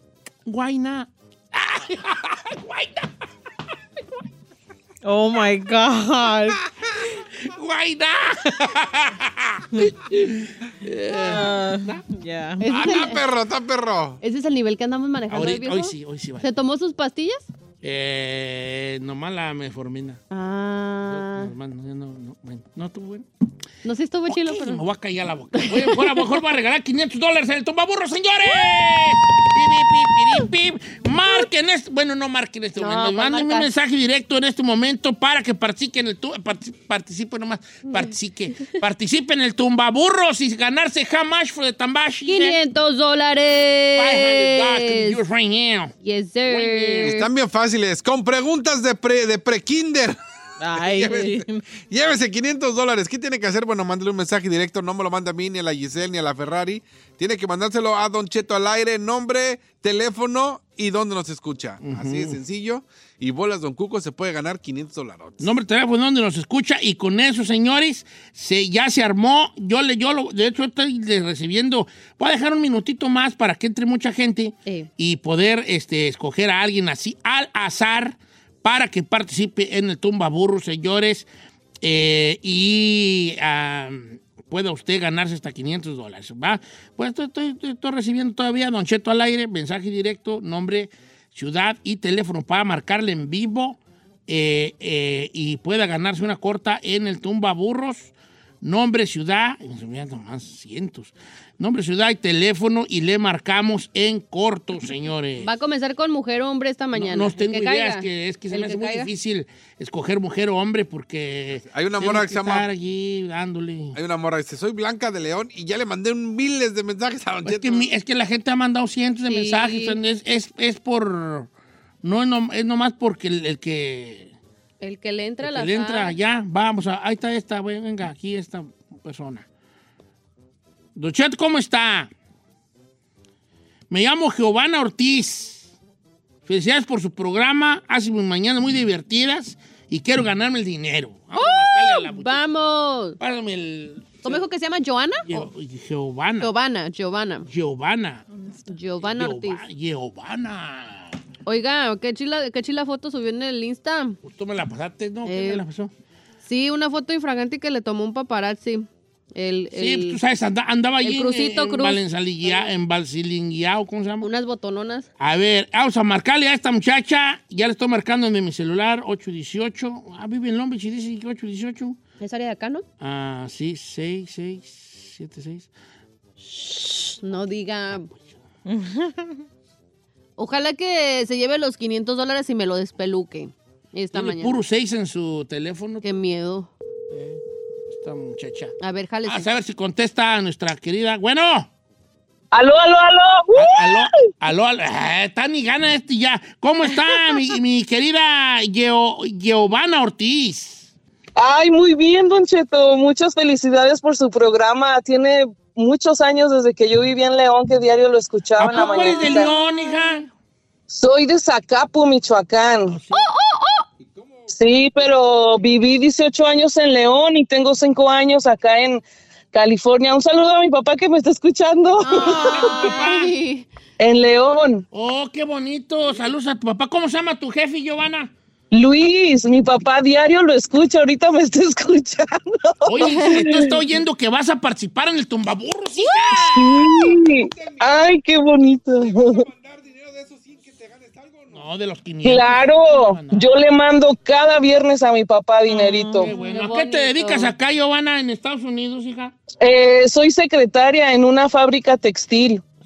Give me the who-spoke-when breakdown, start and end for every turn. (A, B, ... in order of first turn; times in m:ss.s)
0:00.4-0:03.1 A
0:05.0-0:06.6 B
0:07.4-0:12.0 A
0:11.1-0:12.6 B
0:12.6-0:13.2 C
0:12.7-0:14.2 D
0:14.2-0:17.4 C
0:15.3-0:16.4 A
0:17.8-0:20.2 A
0:20.3-0:21.5 C
0:21.1-0:23.2 A
0:23.8-0:24.8 C
0:24.3-0:42.6 A
0:25.6-0:26.2 C
0:32.8-0:33.7 C
0:42.2-0:45.2 C
0:44.0-0:45.9 A
0:46.0-0:47.2 C
0:46.5-0:47.2 A
0:47.0-0:50.2 D
0:50.6-0:51.6 B
0:50.7-1:05.5 D
1:01.8-1:02.4 A
1:05.4-1:21.2 A
1:21.8-1:45.5 A
1:45.4-1:49.1 C
1:46.9-1:54.0 A
1:51.6-1:52.7 D
1:53.9-1:57.9 D
1:57.4-2:01.5 A
1:59.2-2:00.0 C
2:02.0-2:04.3 A
2:04.8-2:06.2 C
2:05.4-2:09.4 A
2:11.0-2:12.1 A
2:13.9-2:15.7 A
2:16.4-2:22.4 A
2:21.3-2:23.2 C
2:23.2-2:24.4 A
2:24.2-2:25.4 C
2:25.3-2:26.5 A
2:26.4-2:27.4 C
2:27.5-2:28.2 A
2:28.7-2:29.6 C
2:29.0-2:31.2 A
2:31.4-2:34.2 C
2:34.2-2:35.9 A
2:35.2-2:35.6 C
2:36.4-2:40.2 C
2:39.7-2:44.3 A
2:41.0-2:42.7 C
2:44.2-2:45.1 C
2:45.2-2:52.0 A
2:52.2-2:52.8 C
2:53.0-2:55.7 A
2:57.0-2:58.1 C
2:58.6-2:59.3 B
3:00.4-3:04.6 C
3:04.1-3:06.0 A
3:06.0-3:06.7 C
3:07.1-3:07.4 A
3:07.9-3:08.7 A
3:08.8-3:09.5 C
3:09.2-3:11.7 A
3:12.5-3:14.3 E
3:13.5-3:20.9 A
3:21.4-3:29.5 E
3:28.6-3:30.2 A
3:28.7-3:30.0 C
3:30.9-3:33.0 E
3:32.9-3:33.3 A
3:33.1-3:33.9 C
3:34.0-3:34.5 D
3:34.5-3:42.6 E
3:42.0-3:43.7 C
3:42.3-3:43.0 B
3:42.3-3:43.3 A
3:44.0-3:44.8 E
3:44.9-3:48.3 A
3:48.7-3:53.8 E
3:52.8-3:56.9 A
3:53.0-3:53.4 C
3:56.3-3:59.4 E
3:56.9-3:58.0 D
3:59.0-4:01.6 D
4:01.5-4:03.5 A
4:02.2-4:06.3 E
4:05.7-4:06.4 B
4:06.2-4:09.3 A
4:06.3-4:07.5 C
4:09.6-4:12.6 E